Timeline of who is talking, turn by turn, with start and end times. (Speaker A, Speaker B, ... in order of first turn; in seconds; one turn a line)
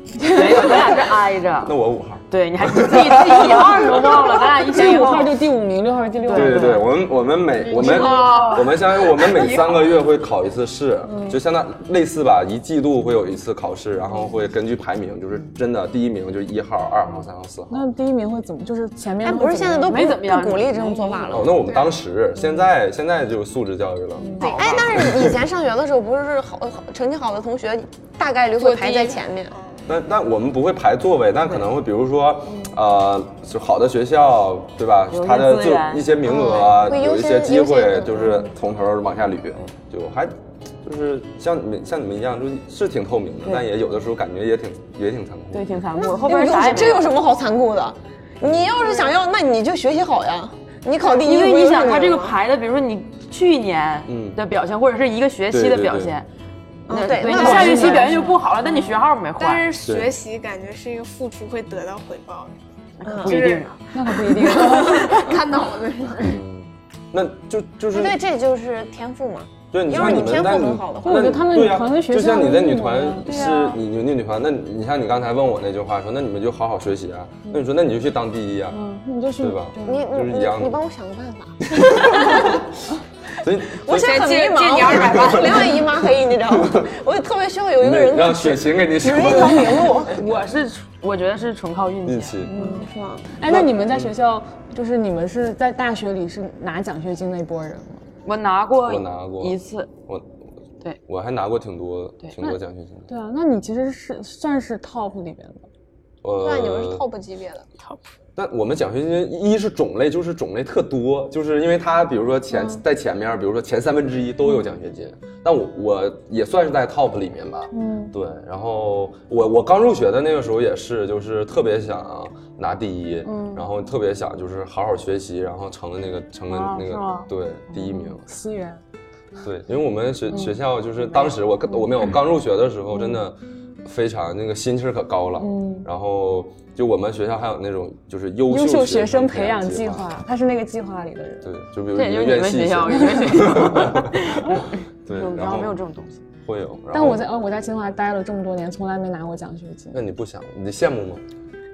Speaker A: 0.2-0.8
Speaker B: 0.3-1.8
Speaker C: 0.4-0.8
Speaker C: 1.6-4.5
Speaker B: 2.3-5.4
Speaker A: 4.7-6.9
Speaker B: 6.3-6.9
Speaker C: 6.3-17.9
Speaker B: 7.7-9.8
Speaker D: 8.1-8.5
Speaker A: 11.1-11.4
Speaker A: 17.7-20.1
Speaker E: 19.2-21.6
Speaker B: 19.9-21.4
Speaker C: 21.3-25.4
Speaker D: 21.6-21.9
Speaker A: 24.2-24.5
Speaker D: 24.4-25.0
Speaker E: 24.4-29.6
Speaker D: 28.6-29.8
Speaker C: 29.9-45.7
Speaker B: 35.1-36.3
Speaker E: 36.2-38.5
Speaker B: 45.5-47.2
Speaker E: 46.0-52.3
Speaker C: 48.4-48.8
Speaker B: 51.0-56.3
Speaker C: 54.1-54.4
Speaker C: 55.5-56.2
Speaker E: 56.9-58.2
Speaker B: 56.9-59.7
Speaker A: 57.2-58.4
Speaker D: 59.4-62.5
Speaker C: 59.9-60.1
Speaker B: 63.0-63.8
Speaker E: 63.0-63.4
Speaker D: 63.2-63.8
Speaker A: 63.9-65.3
Speaker D: 64.3-66.4
Speaker E: 65.2-66.1
Speaker C: 66.2-68.2
Speaker E: 67.9-71.4
Speaker C: 69.7-78.8
Speaker A: 71.0-73.5
Speaker B: 73.3-73.6
Speaker A: 78.7-80.1
Speaker C: 79.4-80.8
Speaker E: 79.8-82.6
Speaker C: 81.7-82.7
Speaker C: 83.4-84.1
Speaker E: 83.8-90.2
Speaker D: 83.9-85.8
Speaker C: 84.9-86.9
Speaker C: 87.8-90.5
Speaker B: 90.1-92.4
Speaker C: 92.0-92.7
Speaker A: 92.5-98.1
Speaker E: 92.6-93.3
Speaker C: 93.5-94.1
Speaker B: 98.2-99.9
Speaker C: 98.8-100.3
Speaker C: 101.1-103.1
Speaker A: 103.1-105.7
Speaker C: 106.2-107.0
Speaker E: 106.4-107.7
Speaker C: 108.4-128.3
Speaker A: 112.5-112.8
Speaker A: 117.7-118.2
Speaker A: 123.3-123.6
Speaker B: 126.5-127.3
Speaker A: 128.2-128.8
Speaker C: 129.4-140.1
Speaker A: 135.4-135.9
Speaker A: 138.5-141.5
Speaker C: 141.4-145.8
Speaker B: 141.9-146.2
Speaker C: 146.4-147.2
Speaker A: 146.9-150.0
Speaker C: 149.9-151.2